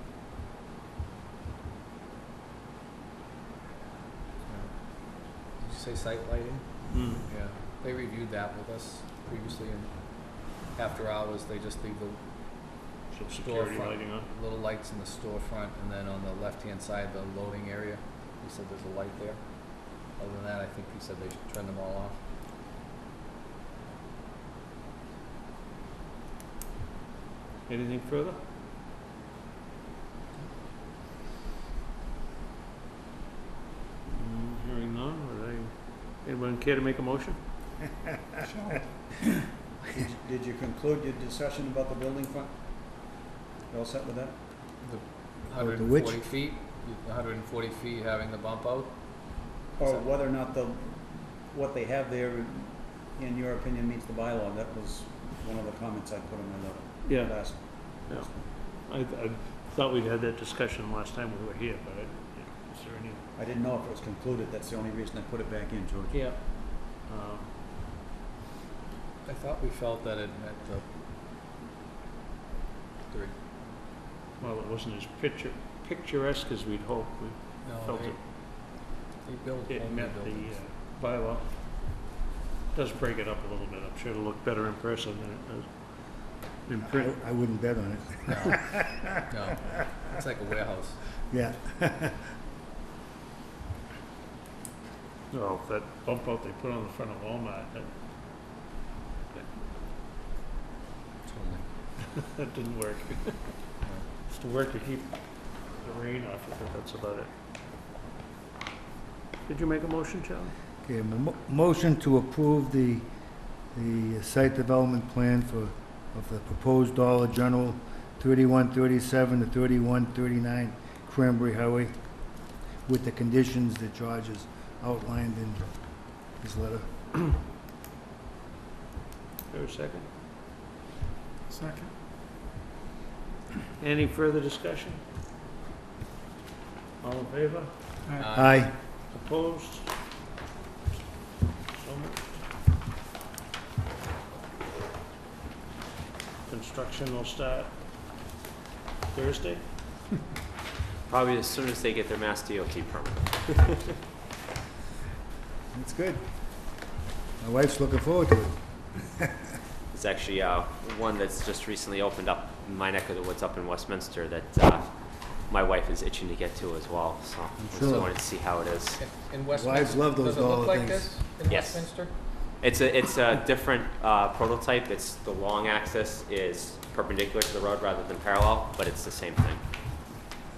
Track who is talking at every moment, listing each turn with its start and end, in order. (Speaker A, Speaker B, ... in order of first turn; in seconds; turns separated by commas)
Speaker A: 4.5-4.7, Speaker A: 5.5-22.2, Speaker B: 6.9-7.3, Speaker B: 13.1-14.3, Speaker B: 27.7-28.4, Speaker B: 34.1-37.4, Speaker C: 39.9-43.1, Speaker C: 43.7-44.4, Speaker A: 44.8-50.0, Speaker D: 45.6-46.3, Speaker C: 49.8-58.4, Speaker B: 57.0-63.2, Speaker C: 63.4-66.2, Speaker B: 66.1-67.5, Speaker A: 69.2-70.9, Speaker B: 74.4-78.2, Speaker A: 77.6-80.6, Speaker B: 79.7-82.0, Speaker B: 82.7-87.2, Speaker D: 86.9-89.0, Speaker A: 88.3-91.0, Speaker D: 91.3-92.3, Speaker B: 95.3-97.9, Speaker A: 101.2-101.7, Speaker B: 102.2-103.6, Speaker B: 104.3-107.3, Speaker B: 109.5-110.5, Speaker D: 110.8-113.1, Speaker D: 113.7-122.0, Speaker D: 122.8-126.9, Speaker B: 129.5-130.1, Speaker B: 133.8-135.0, Speaker B: 137.0-137.7, Speaker A: 138.2-138.7, Speaker D: 138.3-138.8, Speaker B: 139.1-139.9, Speaker B: 141.7-142.3, Speaker B: 146.5-147.7, Speaker B: 149.1-149.6, Speaker E: 151.1-153.7, Speaker D: 155.7-156.2, Speaker D: 157.4-159.3, Speaker E: 159.9-164.9, Speaker E: 165.5-169.0, Speaker D: 167.6-168.1, Speaker A: 167.8-172.1, Speaker D: 169.5-171.1, Speaker E: 171.5-172.0, Speaker E: 172.6-179.6